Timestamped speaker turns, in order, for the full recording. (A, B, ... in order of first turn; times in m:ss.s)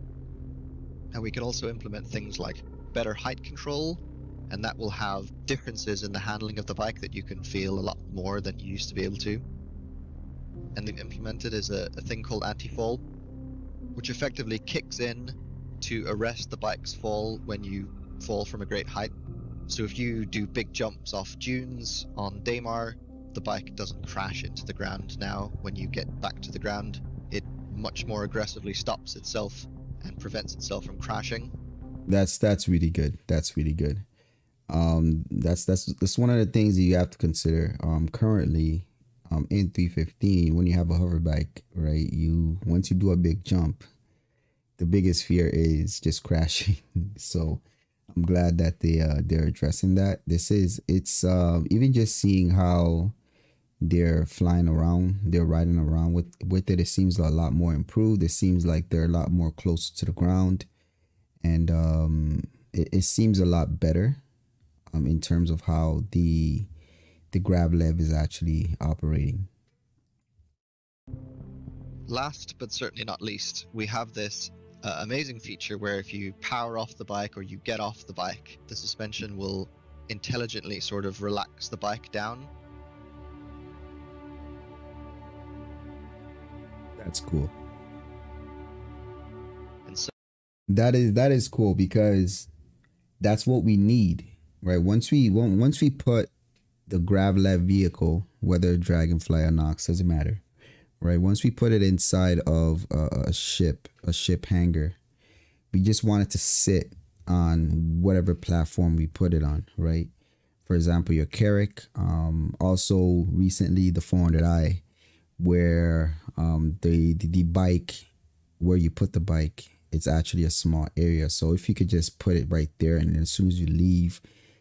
0:01.1-0:09.4 A
0:10.8-0:13.0 A
0:14.0-0:19.1 A
0:19.7-0:31.5 A
0:32.1-0:34.0 B
0:34.7-0:43.9 B
0:44.8-0:53.2 B
0:53.8-1:00.7 B
1:01.4-1:04.2 B
1:04.9-1:06.7 B
1:07.3-1:09.5 B
1:12.1-1:22.5 A
1:27.0-1:27.5 B
1:29.9-1:30.1 A
1:30.7-1:32.5 B
1:33.2-1:36.3 B
1:36.9-1:40.4 B
1:41.0-1:45.0 B
1:45.7-1:50.1 B
1:50.6-1:54.8 B
1:55.4-1:58.1 B
1:58.6-2:04.2 B